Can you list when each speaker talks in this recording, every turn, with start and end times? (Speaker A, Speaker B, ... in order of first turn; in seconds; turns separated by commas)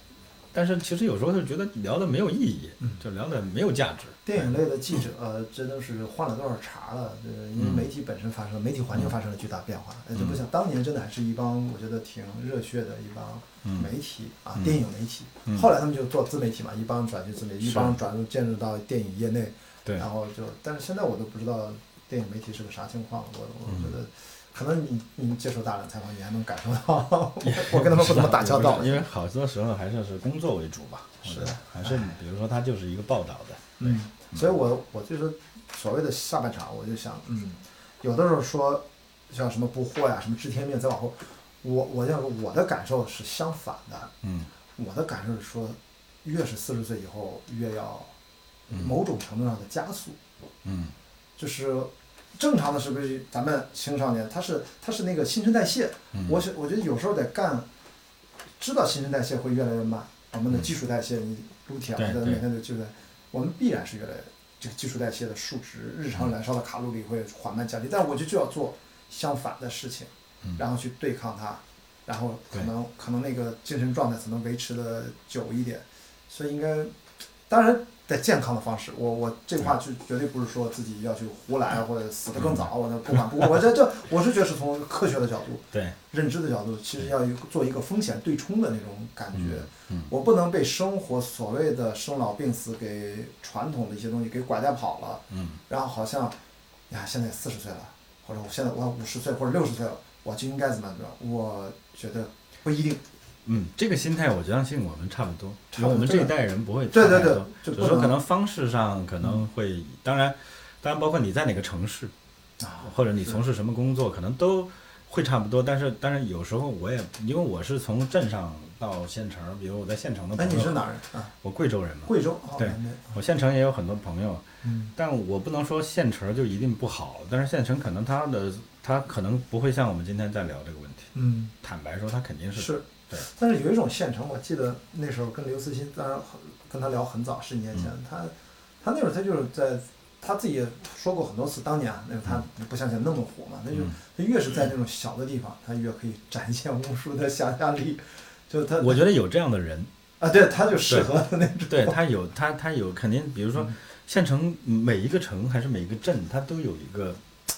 Speaker A: 0.5-4.5, Speaker B: 4.2-29.0, Speaker A: 7.6-7.9, Speaker A: 13.6-13.9, Speaker A: 14.6-14.8, Speaker A: 17.6-18.0, Speaker A: 23.7-23.9, Speaker A: 27.4-34.4, Speaker B: 31.2-32.2, Speaker B: 33.8-44.1, Speaker A: 44.2-44.5, Speaker B: 44.8-48.1, Speaker B: 48.7-50.2, Speaker A: 50.6-50.9, Speaker B: 51.4-57.7, Speaker A: 56.1-56.4, Speaker B: 58.6-76.9, Speaker A: 62.0-62.4, Speaker B: 77.5-96.4, Speaker A: 82.4-82.7, Speaker A: 85.7-86.0, Speaker A: 89.3-90.1, Speaker A: 95.3-95.6, Speaker B: 96.9-103.0, Speaker A: 103.5-112.1, Speaker B: 105.7-106.3, Speaker B: 106.9-108.2, Speaker B: 112.6-113.4, Speaker A: 112.8-120.8, Speaker B: 120.4-121.3, Speaker A: 121.4-133.3, Speaker B: 122.1-123.1, Speaker B: 124.6-124.9, Speaker B: 131.2-131.5, Speaker B: 132.6-149.0, Speaker A: 148.8-149.9, Speaker B: 150.2-152.0, Speaker A: 151.7-157.2